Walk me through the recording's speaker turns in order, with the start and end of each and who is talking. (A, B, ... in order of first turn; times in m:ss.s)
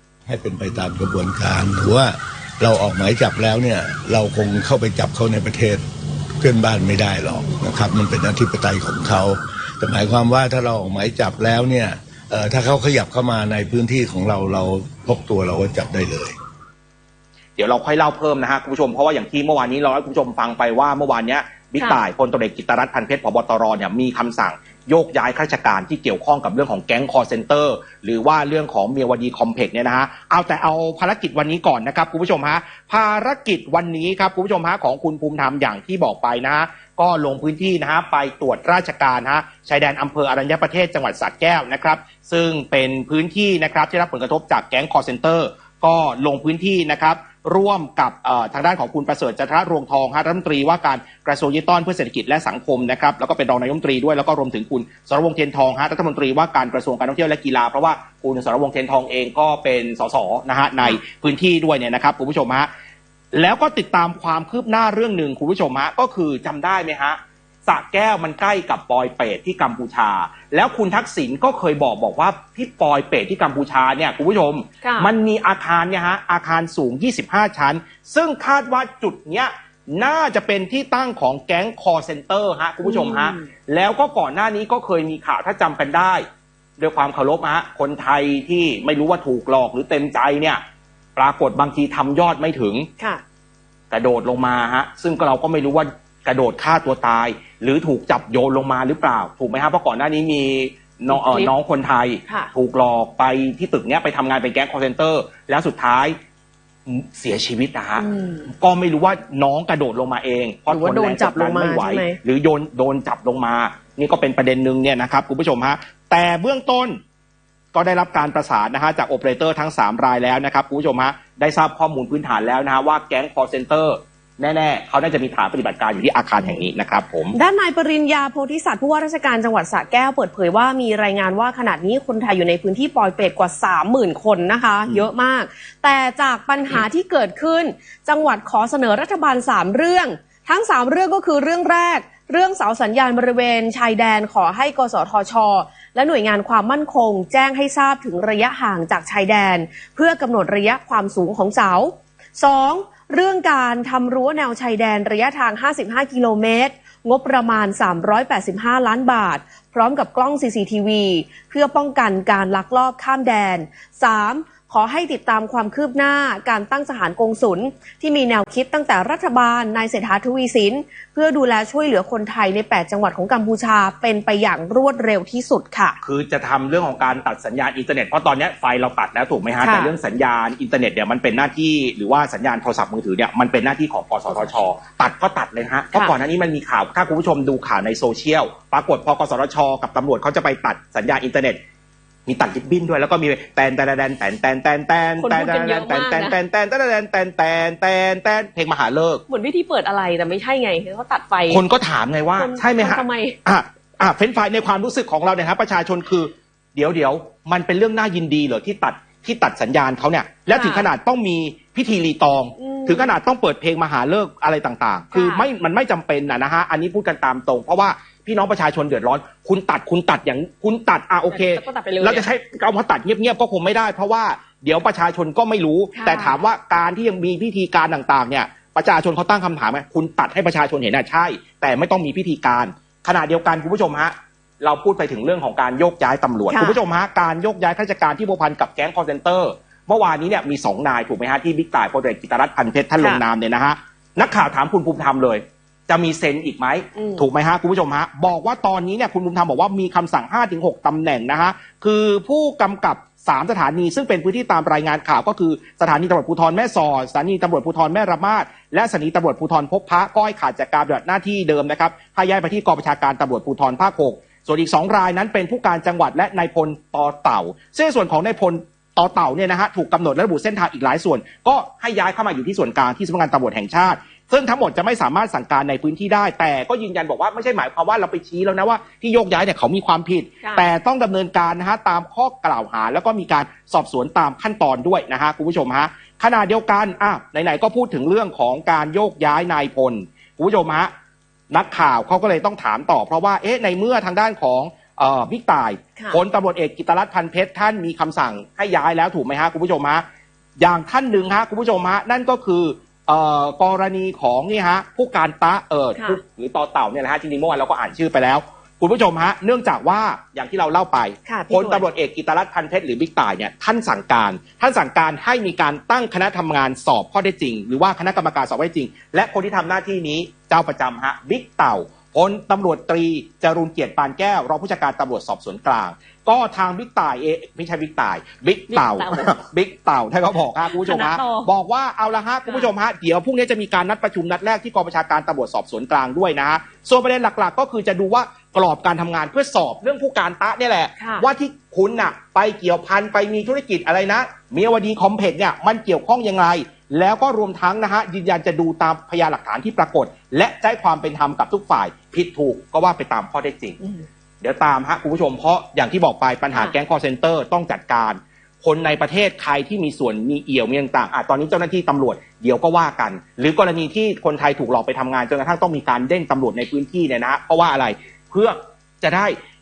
0:00.3-0:05.8 A
0:06.4-0:16.4 A
0:17.6-1:02.7 B
1:03.3-1:26.2 B
1:14.8-1:15.1 C
1:22.8-1:23.4 C
1:26.8-1:30.6 B
1:31.2-1:32.9 B
1:33.9-1:46.2 B
1:41.1-1:41.5 C
1:46.9-1:57.0 B
1:48.0-1:48.5 C
1:50.7-1:52.2 C
1:57.7-2:07.4 B
2:07.3-2:56.0 C
2:56.0-3:11.6 B
2:59.6-2:59.9 C
3:04.3-3:04.6 C
3:12.3-3:19.2 B
3:15.2-3:16.4 C
3:19.3-3:21.6 C
3:21.5-4:50.9 B
3:22.4-3:23.4 C
3:30.5-3:30.9 C
3:32.6-3:33.2 C
3:35.1-3:35.4 C
3:41.3-3:42.2 C
3:46.0-3:46.4 C
3:56.5-3:56.8 C
4:07.0-4:07.2 C
4:51.5-5:00.0 B
5:00.6-5:53.8 B
5:11.3-5:11.8 C
5:28.7-5:29.3 C
5:30.6-5:31.5 C
5:32.4-5:32.7 C
5:41.0-5:41.2 C
5:54.4-6:09.4 B